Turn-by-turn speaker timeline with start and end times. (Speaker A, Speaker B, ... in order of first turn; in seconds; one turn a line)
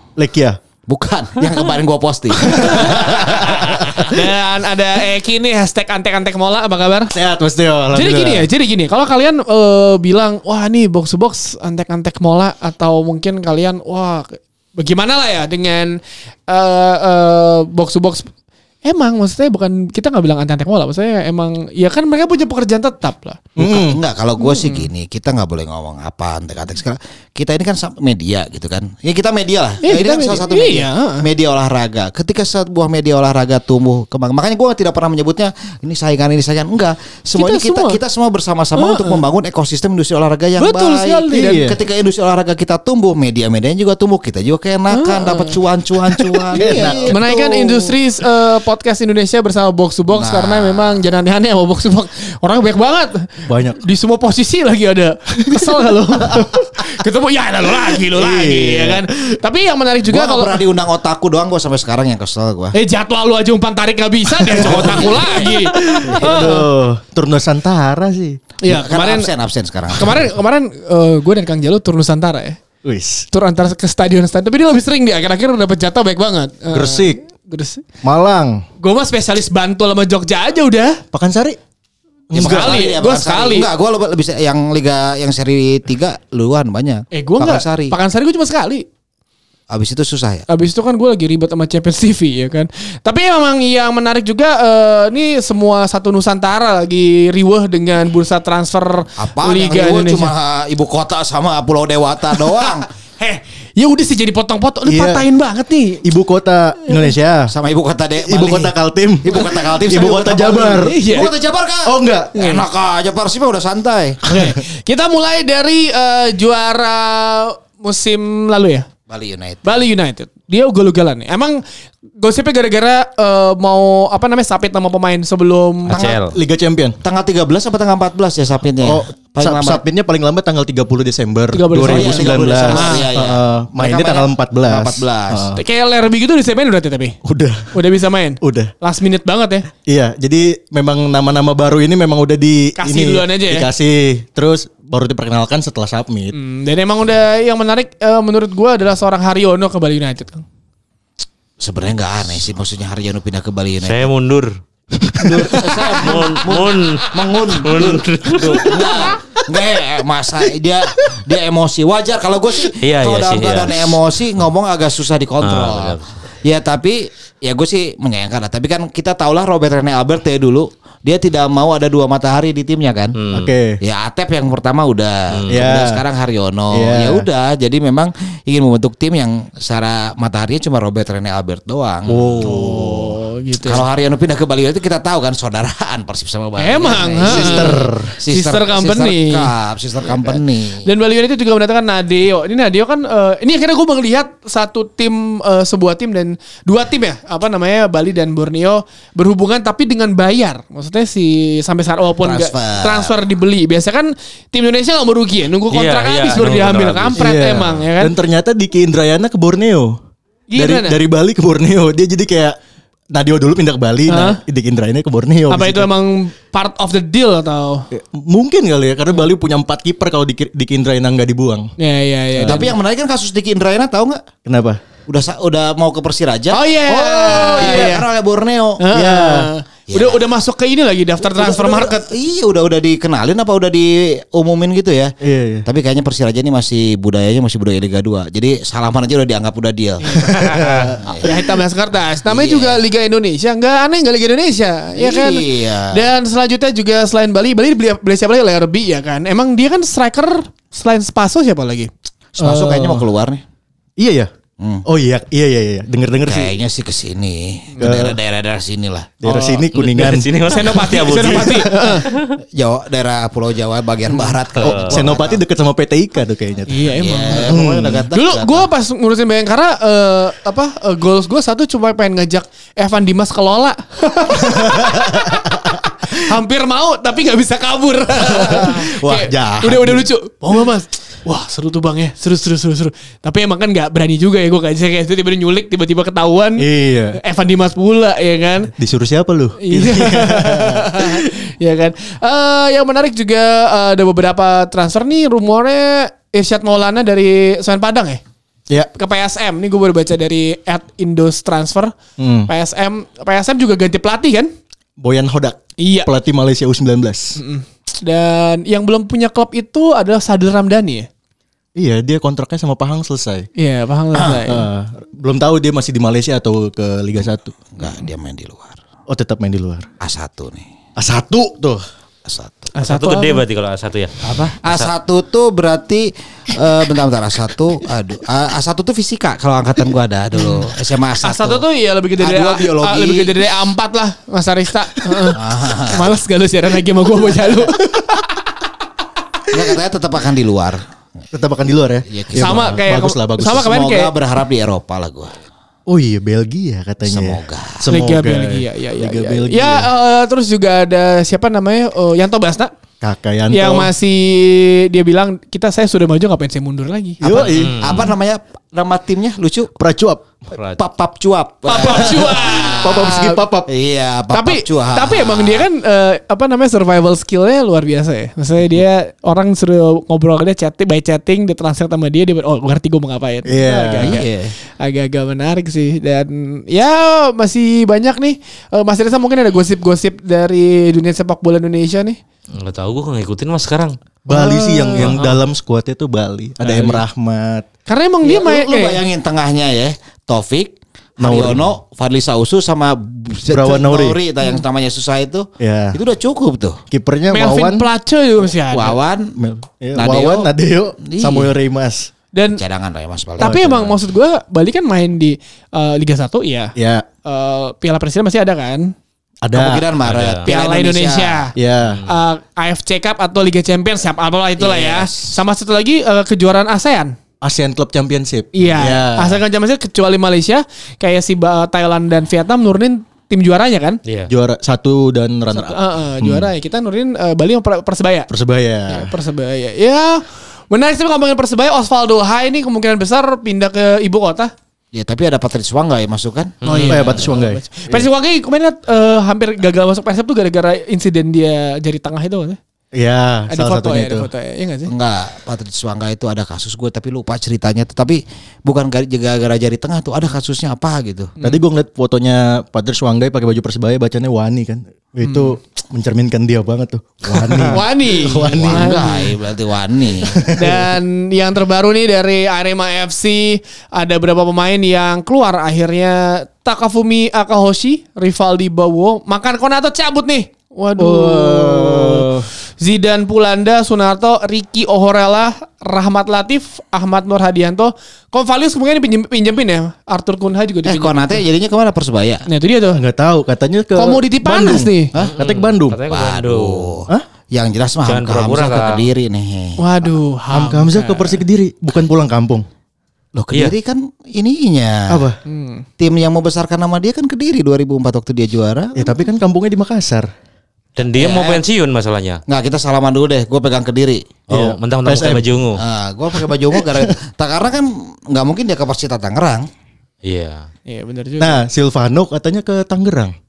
Speaker A: 0.2-0.6
Speaker B: 0.9-4.2
Speaker A: 2.4-4.2
Speaker C: 4.0-7.1
Speaker A: 7.1-8.5
Speaker C: 7.9-18.3
Speaker C: 18.8-23.4
Speaker A: 23.6-24.0
Speaker B: 23.6-48.0
Speaker C: 24.4-24.9
Speaker C: 29.8-31.2
Speaker C: 37.4-38.0
Speaker C: 38.8-39.2
Speaker C: 40.6-41.6
Speaker A: 41.3-41.8
Speaker C: 44.9-45.6
Speaker C: 46.4-60.6
Speaker A: 46.5-47.2
Speaker B: 50.1-51.0
Speaker A: 53.5-53.8
Speaker A: 55.5-56.5
Speaker A: 57.8-59.4
Speaker B: 60.1-62.8
Speaker C: 62.7-66.7
Speaker A: 64.3-68.4
Speaker B: 64.6-66.4
Speaker C: 68.6-69.3
Speaker B: 68.6-70.3
Speaker C: 70.0-72.6
Speaker A: 72.8-73.3
Speaker C: 73.3-77.8
Speaker A: 76.7-77.2
Speaker A: 78.0-78.6
Speaker C: 78.8-81.0
Speaker A: 81.1-81.6
Speaker A: 82.3-82.8
Speaker B: 82.3-88.0
Speaker C: 82.3-83.7
Speaker C: 87.1-88.8
Speaker B: 89.7-90.5
Speaker C: 90.5-100.3
Speaker B: 99.2-102.9
Speaker C: 102.3-106.0
Speaker A: 104.9-105.2
Speaker A: 106.0-107.5
Speaker B: 107.5-114.2
Speaker A: 108.2-112.4
Speaker C: 110.8-111.3
Speaker C: 112.3-112.6
Speaker C: 114.2-118.8
Speaker B: 119.1-119.7
Speaker C: 119.6-121.6
Speaker C: 122.2-126.0
Speaker D: 125.9-126.4
Speaker B: 125.9-126.2
Speaker A: 126.2-127.0
Speaker B: 127.0-129.8
Speaker A: 128.8-135.6
Speaker C: 131.5-133.1
Speaker B: 131.8-135.6
Speaker C: 135.6-137.2
Speaker A: 137.2-137.8
Speaker C: 137.7-139.7
Speaker A: 138.4-138.7
Speaker A: 139.9-146.3
Speaker C: 142.8-143.7
Speaker C: 146.3-150.4
Speaker B: 151.6-154.1
Speaker D: 153.8-154.5
Speaker A: 155.0-156.0
Speaker B: 155.2-173.2
Speaker D: 155.5-159.1
Speaker D: 162.8-164.0
Speaker D: 165.4-166.3
Speaker D: 173.2-173.5
Speaker A: 173.3-173.8
Speaker B: 173.8-182.2
Speaker D: 175.3-175.6
Speaker A: 175.5-176.0
Speaker A: 176.7-177.3
Speaker A: 182.1-183.2
Speaker D: 182.1-182.4
Speaker C: 182.4-183.8
Speaker B: 183.7-190.9
Speaker C: 186.6-208.2
Speaker A: 187.2-188.1
Speaker B: 202.2-203.2
Speaker D: 205.7-207.2
Speaker A: 207.2-210.0
Speaker C: 210.5-211.0
Speaker A: 210.6-212.6
Speaker A: 213.1-215.9
Speaker C: 214.1-214.4
Speaker C: 215.5-217.9
Speaker A: 217.9-221.7
Speaker C: 221.8-222.7
Speaker A: 222.4-222.7
Speaker B: 222.4-224.2
Speaker A: 224.4-224.8
Speaker B: 225.1-228.8
Speaker C: 226.5-228.1
Speaker A: 227.3-228.0
Speaker C: 228.8-232.1
Speaker A: 228.9-229.5
Speaker B: 229.9-230.2
Speaker B: 231.3-235.1
Speaker A: 235.2-235.7
Speaker B: 235.7-241.3
Speaker C: 240.0-240.5
Speaker A: 240.3-241.0
Speaker D: 240.3-240.9
Speaker C: 241.2-251.9
Speaker B: 242.3-242.8
Speaker B: 245.0-246.0
Speaker B: 252.3-253.4
Speaker A: 252.4-253.1
Speaker A: 254.0-254.3
Speaker B: 254.6-254.8
Speaker A: 254.9-256.5
Speaker B: 256.3-259.1
Speaker A: 257.8-258.2
Speaker A: 259.2-260.4
Speaker C: 259.3-259.7
Speaker D: 259.7-262.4
Speaker C: 260.4-262.1
Speaker A: 261.2-261.6
Speaker B: 262.1-265.4
Speaker D: 264.6-265.0
Speaker A: 264.7-266.9
Speaker C: 266.7-267.6
Speaker B: 267.0-268.7
Speaker A: 267.4-268.1
Speaker C: 268.1-288.7
Speaker A: 274.4-275.8
Speaker A: 278.2-280.1
Speaker A: 286.6-287.2
Speaker A: 288.7-291.3
Speaker C: 289.6-298.2
Speaker C: 298.9-301.9
Speaker A: 302.2-302.5
Speaker C: 302.5-304.5
Speaker A: 305.0-307.4
Speaker C: 305.8-306.1
Speaker C: 307.4-311.1
Speaker A: 311.8-313.5
Speaker C: 313.6-314.7
Speaker A: 314.4-317.5
Speaker B: 317.7-318.8
Speaker A: 319.1-319.9
Speaker B: 320.0-320.7
Speaker A: 321.0-321.8
Speaker B: 322.3-322.7
Speaker C: 322.7-323.4
Speaker D: 322.8-324.9
Speaker B: 324.2-331.6
Speaker C: 330.4-330.6
Speaker C: 331.2-338.3
Speaker B: 332.2-333.4
Speaker B: 335.4-336.1
Speaker B: 339.5-340.8
Speaker A: 341.3-343.7
Speaker B: 342.1-342.7
Speaker C: 342.4-344.1
Speaker B: 343.5-345.3
Speaker A: 345.9-349.9
Speaker B: 347.0-347.9
Speaker C: 347.9-352.7
Speaker A: 353.0-353.9
Speaker C: 353.5-357.2
Speaker B: 357.2-359.7
Speaker A: 357.2-357.9
Speaker D: 357.5-358.1
Speaker A: 359.8-360.2
Speaker D: 360.5-360.8
Speaker B: 360.8-365.6
Speaker C: 361.7-363.4
Speaker A: 361.9-363.7
Speaker C: 364.3-382.2
Speaker A: 373.5-374.2
Speaker B: 374.0-374.5
Speaker D: 382.5-383.9
Speaker A: 384.3-387.7
Speaker C: 384.3-385.1
Speaker D: 384.9-385.4
Speaker C: 387.9-389.0
Speaker B: 388.2-396.8
Speaker A: 391.2-391.6
Speaker A: 393.5-394.2
Speaker A: 395.6-396.0
Speaker A: 396.9-397.9
Speaker C: 397.3-399.0
Speaker B: 398.7-399.4
Speaker A: 399.4-402.1
Speaker B: 399.9-400.5
Speaker B: 401.0-401.5
Speaker C: 402.3-402.6
Speaker B: 402.5-403.9
Speaker C: 403.4-408.9
Speaker A: 406.8-407.1
Speaker A: 409.4-409.9
Speaker B: 409.5-411.5
Speaker D: 410.0-410.5
Speaker C: 410.4-411.5
Speaker A: 411.6-412.0
Speaker D: 411.9-412.1
Speaker C: 412.1-417.1
Speaker B: 414.6-415.4
Speaker A: 417.4-419.4
Speaker C: 418.5-424.0
Speaker D: 424.1-424.3
Speaker A: 424.3-426.5
Speaker C: 425.5-428.3
Speaker A: 428.3-429.1
Speaker C: 428.9-434.5
Speaker B: 434.9-436.6
Speaker D: 436.6-437.2
Speaker C: 436.6-442.6
Speaker A: 436.9-438.0
Speaker A: 442.9-444.3
Speaker C: 443.5-444.9
Speaker B: 444.9-451.3
Speaker A: 451.4-459.1
Speaker C: 455.2-455.6
Speaker C: 457.7-459.3
Speaker B: 458.4-460.5
Speaker A: 460.2-460.9
Speaker C: 460.5-481.4
Speaker A: 471.0-472.5
Speaker B: 480.9-482.4
Speaker C: 482.5-483.0
Speaker A: 482.9-486.0
Speaker C: 483.9-485.1
Speaker D: 485.2-487.0
Speaker B: 486.1-489.8
Speaker D: 488.1-489.1
Speaker C: 489.8-491.4
Speaker A: 490.5-492.7
Speaker B: 493.4-495.3
Speaker A: 495.1-495.4
Speaker C: 495.5-495.9
Speaker B: 496.0-499.1
Speaker A: 499.0-500.3
Speaker D: 501.0-502.4
Speaker B: 501.2-501.6
Speaker B: 502.5-504.3
Speaker D: 504.5-505.8
Speaker A: 504.5-505.5
Speaker B: 505.8-509.7
Speaker A: 506.3-507.1
Speaker D: 510.2-510.7
Speaker C: 510.9-511.6
Speaker A: 511.4-513.4